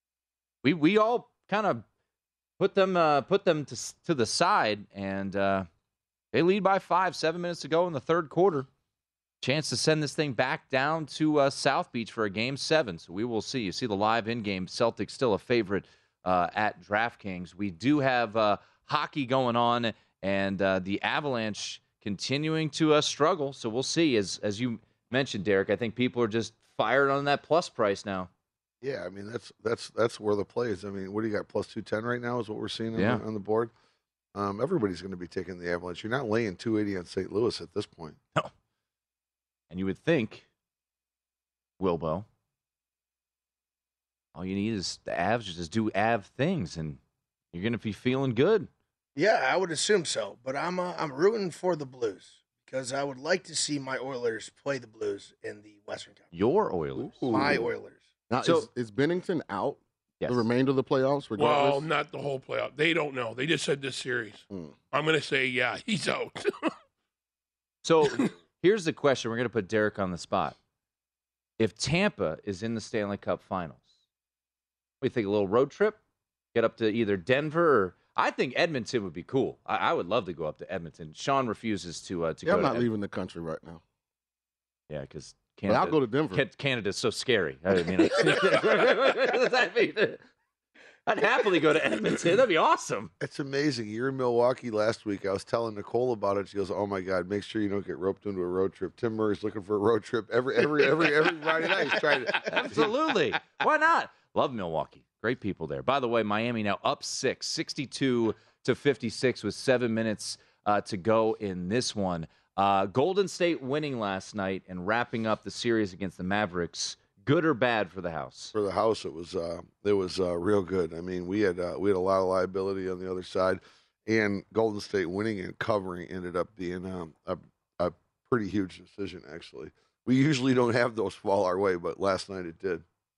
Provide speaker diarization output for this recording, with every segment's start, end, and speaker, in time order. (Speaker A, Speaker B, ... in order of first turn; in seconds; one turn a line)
Speaker A: 0.6-1.8
Speaker A: 2.6-5.7
Speaker A: 6.3-8.7
Speaker A: 9.4-28.3
Speaker B: 28.8-33.7
Speaker A: 33.0-33.2
Speaker B: 34.3-38.2
Speaker A: 39.7-40.4
Speaker A: 41.8-42.2
Speaker A: 44.3-47.0
Speaker A: 47.5-48.7
Speaker C: 49.1-56.3
Speaker A: 56.3-57.3
Speaker B: 57.0-57.7
Speaker C: 57.3-58.0
Speaker D: 58.3-61.9
Speaker A: 58.4-58.7
Speaker A: 60.2-60.5
Speaker E: 61.4-66.7
Speaker D: 64.5-64.7
Speaker A: 67.8-70.6
Speaker A: 71.6-73.9
Speaker A: 75.0-76.0
Speaker A: 76.5-82.9
Speaker D: 82.4-83.8
Speaker A: 84.9-90.2
Speaker D: 85.7-86.4
Speaker A: 91.0-93.1
Speaker B: 93.2-102.9
Speaker A: 102.4-118.5
Speaker B: 118.5-132.8